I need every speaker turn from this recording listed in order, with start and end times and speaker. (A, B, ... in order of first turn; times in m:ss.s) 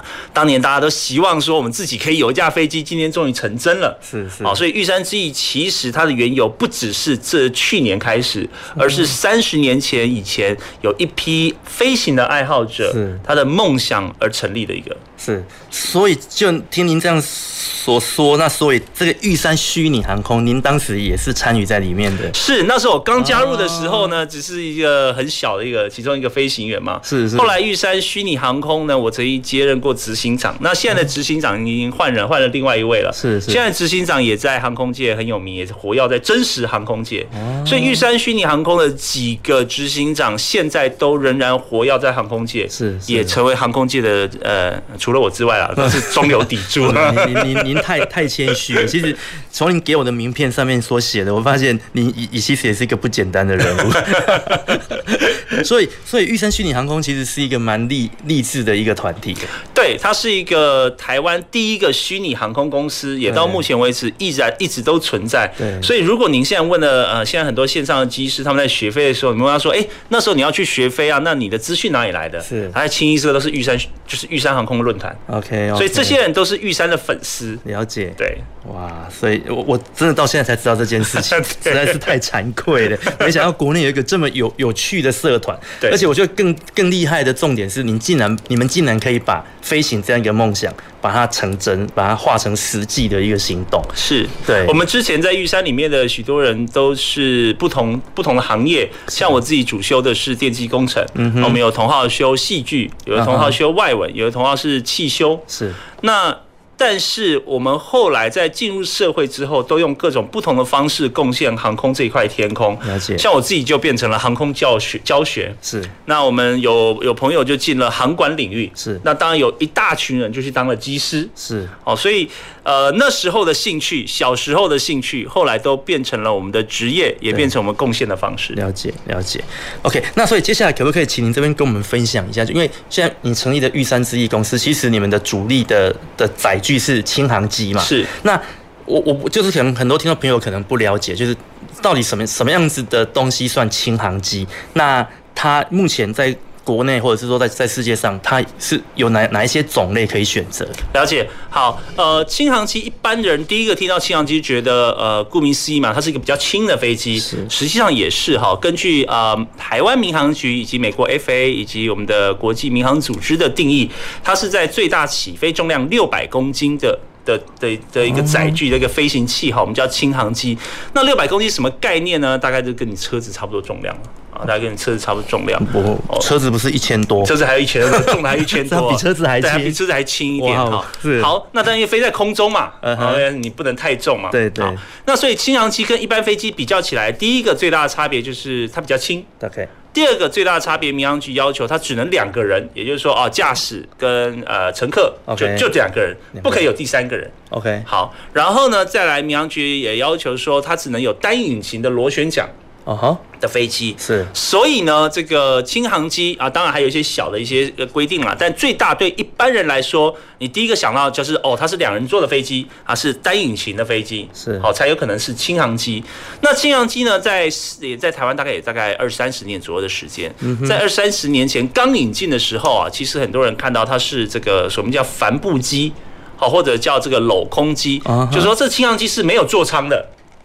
0:00.3-0:15.0 A
0:04.0-0:04.6 B
0:08.8-0:09.1 B
0:12.8-0:13.2 B
0:15.2-0:22.4 B
0:22.3-0:47.8 A
0:23.2-0:24.2 B
0:27.0-0:27.5 B
0:33.1-0:33.6 B
0:37.3-0:38.0 B
0:42.7-0:43.4 B
0:45.8-0:59.5 B
0:53.8-0:54.7 A
0:59.7-1:15.2 A
1:03.3-1:03.6 B
1:05.6-1:05.9 B
1:12.4-1:12.8 B
1:15.3-1:16.2 B
1:15.7-1:17.6 A
1:17.6-1:34.8 B
1:18.2-1:18.4 A
1:21.0-1:22.1 A
1:33.9-1:45.5 A
1:41.2-1:41.6 B
1:43.1-1:43.6 B
1:45.5-1:45.8 B
1:46.0-2:01.3 A
1:52.8-1:53.2 B
1:55.6-1:55.9 B
1:58.8-1:59.0 B
2:01.4-2:01.7 B
2:01.8-2:08.6 A
2:08.5-2:30.8 B
2:17.8-2:18.1 A
2:30.9-2:56.3 A
2:37.2-2:37.5 B
2:48.0-2:48.6 B
2:55.6-2:59.8 B
2:57.2-3:09.3 A
3:00.4-3:01.3 B
3:02.8-3:03.3 B
3:04.3-3:04.8 B
3:09.4-3:09.7 B
3:09.9-3:17.3 A
3:15.3-3:15.7 B
3:16.4-3:16.6 B
3:17.5-3:17.9 B
3:17.9-3:22.5 A
3:22.8-3:23.2 B
3:23.4-3:50.1 A
3:24.0-3:24.3 B
3:34.4-3:34.7 B
3:40.4-3:40.8 B
3:48.0-3:48.5 B